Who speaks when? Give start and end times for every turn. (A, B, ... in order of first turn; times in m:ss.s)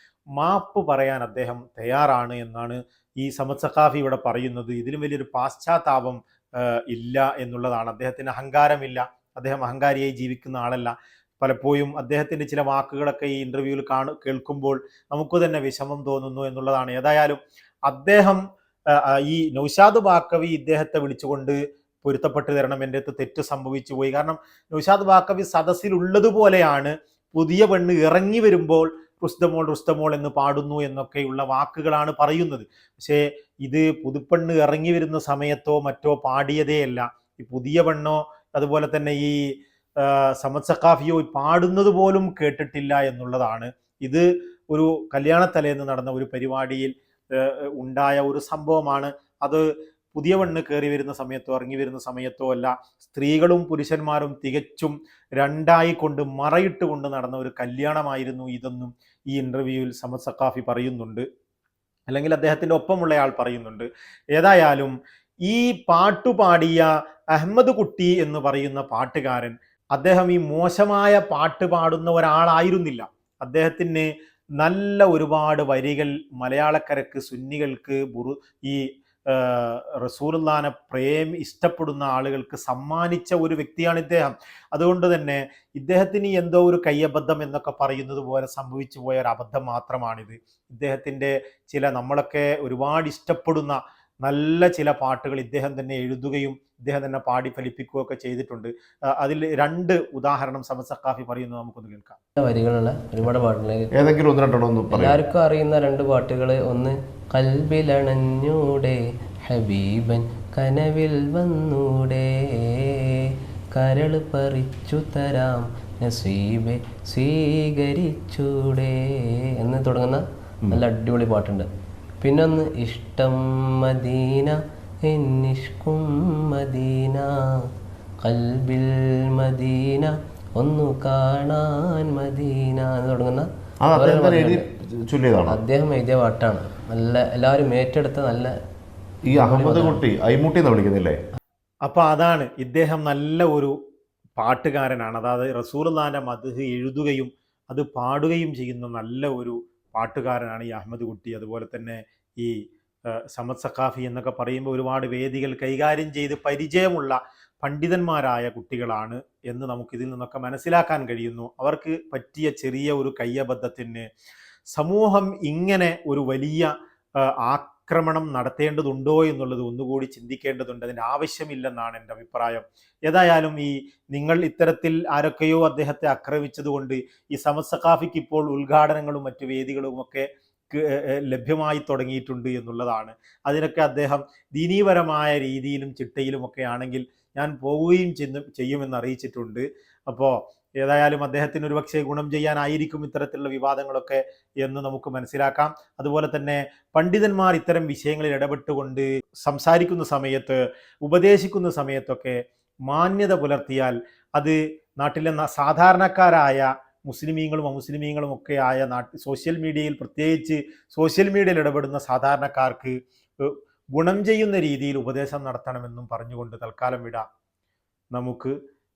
0:00.3-1:01.3 A
1:02.1-1:42.2 A
1:42.4-1:43.9 B
1:43.9-1:45.2 C
1:44.9-2:01.7 B
2:02.2-2:07.7 B
2:08.2-2:14.6 B
2:13.8-2:15.6 C
2:15.5-2:18.5 B
2:19.3-2:21.2 C
2:19.4-2:20.0 B
2:21.8-2:23.8 A
2:24.4-2:44.1 A
2:44.7-3:37.3 A
3:38.1-3:38.6 A